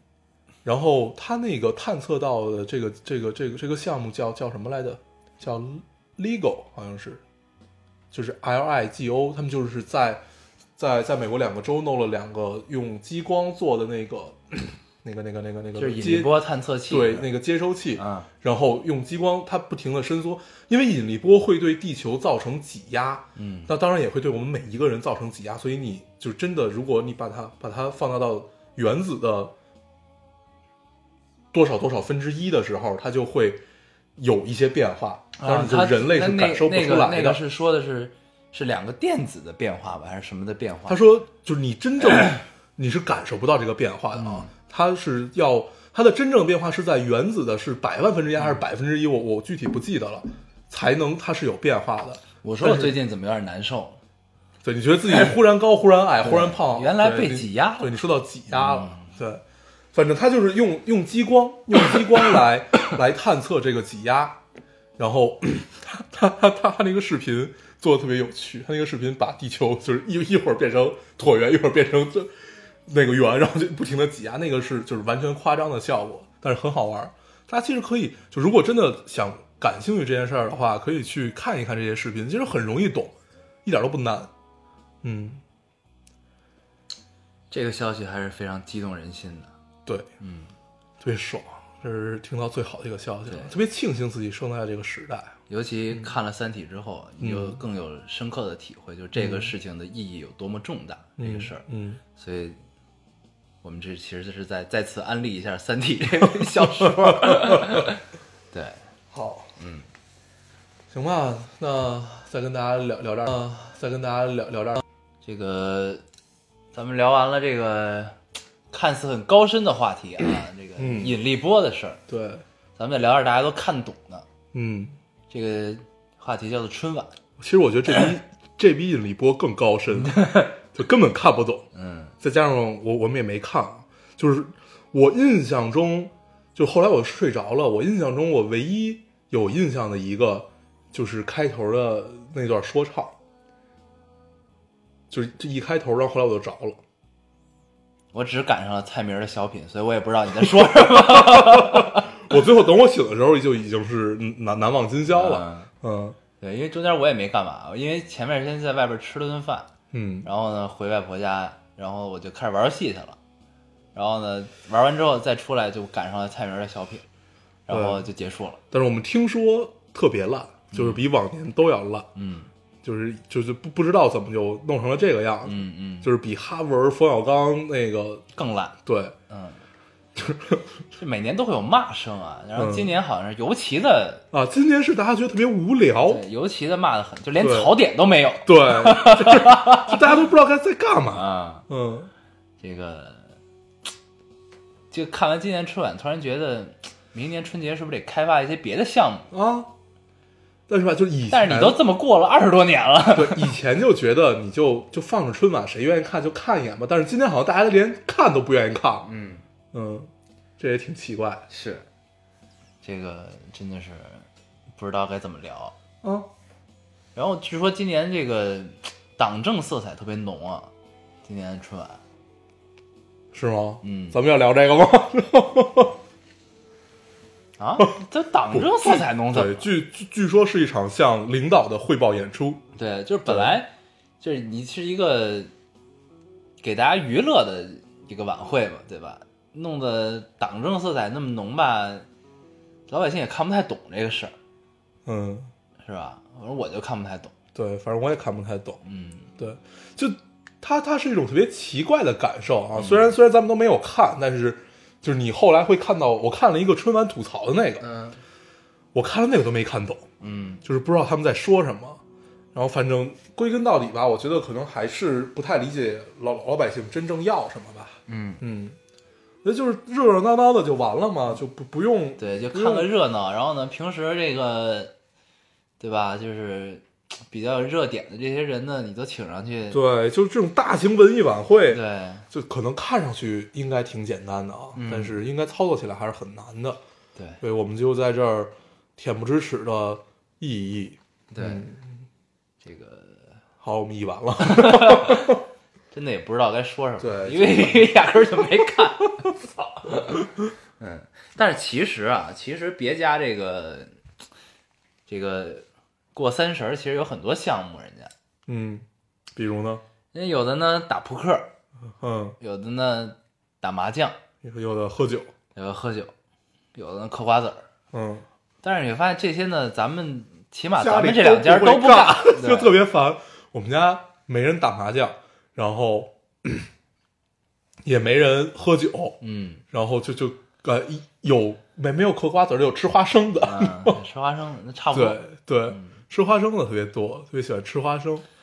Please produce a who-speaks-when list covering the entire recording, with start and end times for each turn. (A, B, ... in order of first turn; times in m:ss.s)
0:00.6-0:07.2 A
0:08.1-0:10.2 A
0:10.8-0:16.4 A
0:15.8-0:17.3 B
0:16.9-0:29.5 A
0:17.9-0:18.3 B
0:23.4-0:23.7 B
0:31.5-0:33.6 A
0:34.2-0:37.4 A
0:35.4-0:41.0 B
0:40.9-0:53.0 A
0:44.2-0:44.5 B
0:52.4-0:54.0 B
0:54.6-0:59.4 A
0:56.2-0:58.0 B
0:58.5-0:59.2 B
0:59.9-1:04.4 A
1:05.0-1:12.3 A
1:12.9-1:23.1 A
1:23.6-1:24.3 A
1:25.0-1:25.4 A
1:27.5-1:29.5 B
1:30.2-1:30.5 B
1:31.0-1:35.4 A
1:35.5-1:41.6 B
1:37.2-1:37.6 A
1:39.2-1:39.5 A
1:41.2-1:42.0 A
1:42.2-1:42.6 B
1:43.6-1:48.0 B
1:46.8-1:47.9 A
1:48.5-1:48.8 B
1:49.1-1:49.5 A
1:49.6-1:49.9 B
1:50.9-1:54.8 A
1:55.2-1:56.0 B
1:56.7-1:58.2 B
1:58.7-2:02.0 B
2:00.8-2:01.2 A
2:02.1-2:02.4 A
2:02.8-2:04.3 B
2:04.5-2:05.0 A
2:05.3-2:07.2 B
2:07.4-2:11.7 A
2:10.0-2:10.5 B
2:11.7-2:12.1 B
2:12.2-2:23.2 A
2:25.1-2:26.8 A
2:28.1-2:32.1 B
2:30.5-2:36.2 A
2:35.1-2:35.7 B
2:36.4-2:39.7 B
2:39.9-2:40.3 A
2:40.2-2:43.2 B
2:44.0-2:47.1 B
2:47.7-2:48.6 B
2:47.7-2:48.1 A
2:48.7-2:52.1 A
2:50.7-2:51.0 B
2:52.2-2:52.5 B
2:52.8-2:58.2 A
2:55.5-2:56.1 B
2:58.4-2:58.8 B
2:58.8-2:59.2 A
2:59.3-2:59.6 B
3:00.2-3:00.7 A
3:01.0-3:04.2 B
3:02.6-3:02.9 A
3:04.3-3:06.2 A
3:06.0-3:10.0 B
3:07.4-3:07.7 A
3:08.4-3:12.1 A
3:11.1-3:11.7 B
3:12.6-3:13.4 B
3:14.9-3:19.3 B
3:19.3-3:19.7 A
3:20.7-3:21.8 A
3:21.3-3:23.5 B
3:23.1-3:29.1 A
3:29.0-3:29.4 B
3:29.7-3:31.5 A
3:31.5-3:31.9 B
3:32.8-3:35.8 B
3:36.0-3:36.3 A
3:37.2-3:40.7 B
3:41.2-3:42.0 B
3:43.3-3:46.0 A
3:43.8-3:44.2 B
3:47.6-3:49.7 B
3:48.5-3:52.6 A
3:52.8-3:55.5 B
3:53.3-3:53.6 A
3:56.6-4:02.1 B
4:02.9-4:04.4 B
4:05.0-4:05.5 A
4:05.8-4:07.3 B
4:07.6-4:08.8 A
4:08.8-4:09.3 B
4:09.4-4:17.8 A
4:12.8-4:13.1 B
4:17.8-4:18.2 B
4:18.9-4:20.1 A
4:20.2-4:20.6 B
4:20.6-4:22.0 A
4:22.5-4:28.8 A
4:28.1-4:28.4 B
4:29.4-4:32.9 A
4:32.2-4:34.9 B
4:35.8-4:39.8 B
4:39.7-4:46.8 A
4:41.7-4:42.3 B
4:44.8-4:45.2 B
4:47.4-4:51.9 A
4:51.3-4:51.7 B
4:52.6-4:53.4 B
4:53.6-4:55.4 A
4:54.4-4:59.3 B
4:57.0-4:57.9 A
4:59.8-5:00.2 B
5:00.8-5:04.0 B
5:05.1-5:08.1 B
5:08.5-5:09.8 A
5:10.1-5:11.5 B
5:12.0-5:12.4 A
5:12.4-5:14.2 B
5:14.4-5:15.3 A
5:15.6-5:16.1 B
5:16.8-5:17.7 B
5:17.9-5:18.3 A
5:18.6-5:22.7 B
5:20.8-5:26.7 A
5:27.8-5:29.2 A
5:29.2-5:29.6 B
5:29.7-5:34.0 A
5:33.4-5:35.9 B
5:34.9-5:38.2 A